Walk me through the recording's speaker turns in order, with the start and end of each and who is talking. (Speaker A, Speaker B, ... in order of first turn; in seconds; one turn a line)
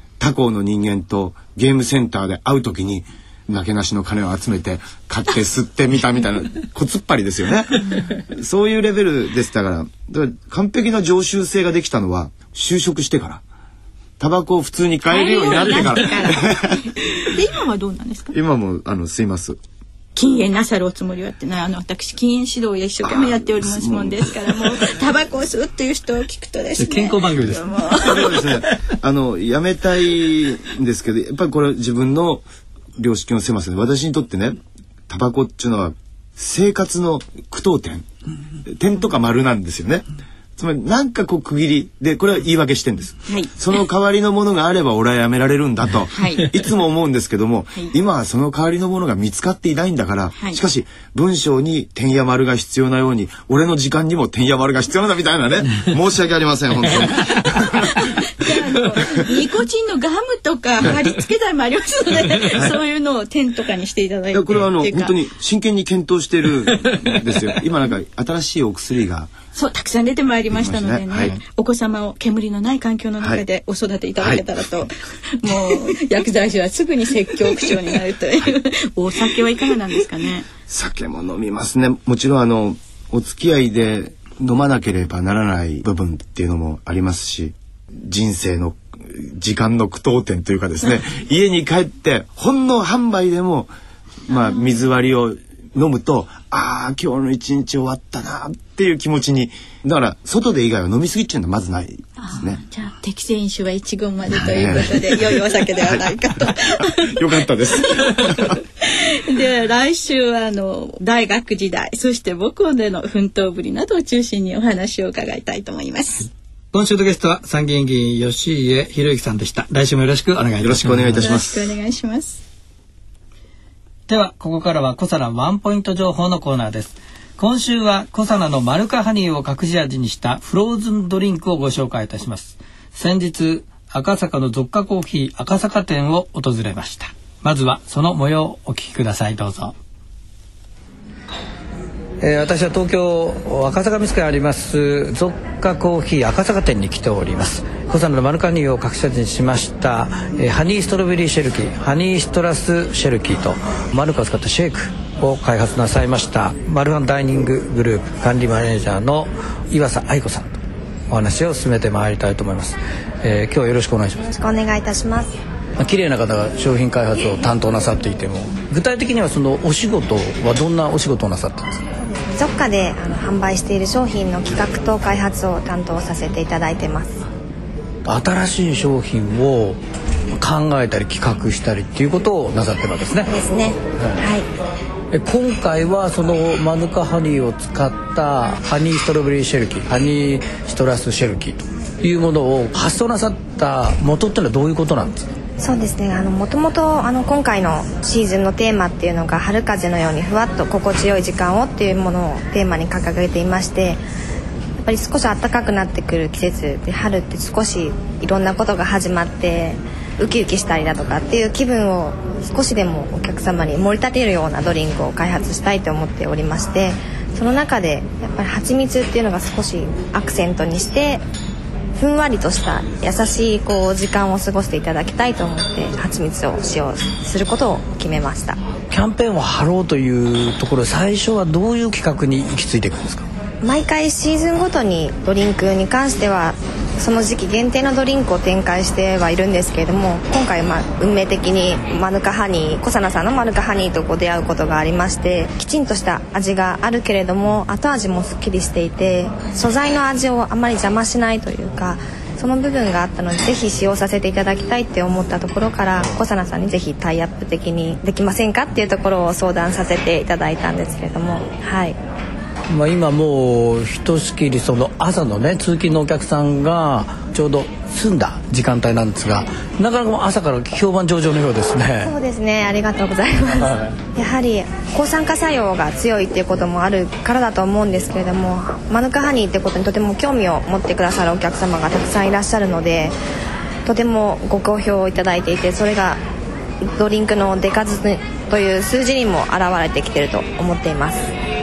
Speaker A: 0.2-13.4
Speaker A: 14.2-16.8
Speaker B: 15.1-18.3
Speaker A: 18.3-19.6
Speaker B: 20.1-28.4
Speaker A: 23.0-24.3
Speaker C: 26.8-27.7
Speaker A: 28.0-32.4
Speaker A: 33.0-34.6
Speaker A: 35.1-38.0
Speaker A: 38.6-40.0
Speaker A: 40.6-57.6
Speaker B: 43.3-43.5
Speaker B: 46.1-46.6
Speaker B: 57.0-65.1
Speaker A: 64.3-69.3
Speaker B: 69.5-80.5
Speaker A: 70.5-71.3
Speaker A: 80.7-93.7
Speaker A: 94.2-102.6
Speaker B: 94.4-94.8
Speaker B: 102.2-107.1
Speaker A: 104.3-106.0
Speaker A: 106.9-108.6
Speaker B: 107.8-116.3
Speaker C: 116.7-121.3
Speaker A: 120.6-121.7
Speaker B: 121.2-122.4
Speaker C: 124.1-139.7
Speaker C: 142.2-160.6
Speaker C: 161.1-164.2
Speaker D: 164.2-165.3
Speaker C: 165.8-171.8
Speaker D: 172.0-177.2
Speaker C: 178.0-179.8
Speaker C: 180.3-183.3
Speaker D: 183.3-184.4
Speaker C: 185.1-195.3
Speaker D: 195.6-204.0
Speaker D: 204.8-221.2
Speaker D: 221.9-228.6
Speaker C: 228.9-233.3
Speaker D: 233.6-261.9
Speaker C: 262.7-272.1
Speaker D: 272.0-283.1
Speaker C: 273.6-273.9
Speaker D: 283.9-286.2
Speaker D: 286.9-291.3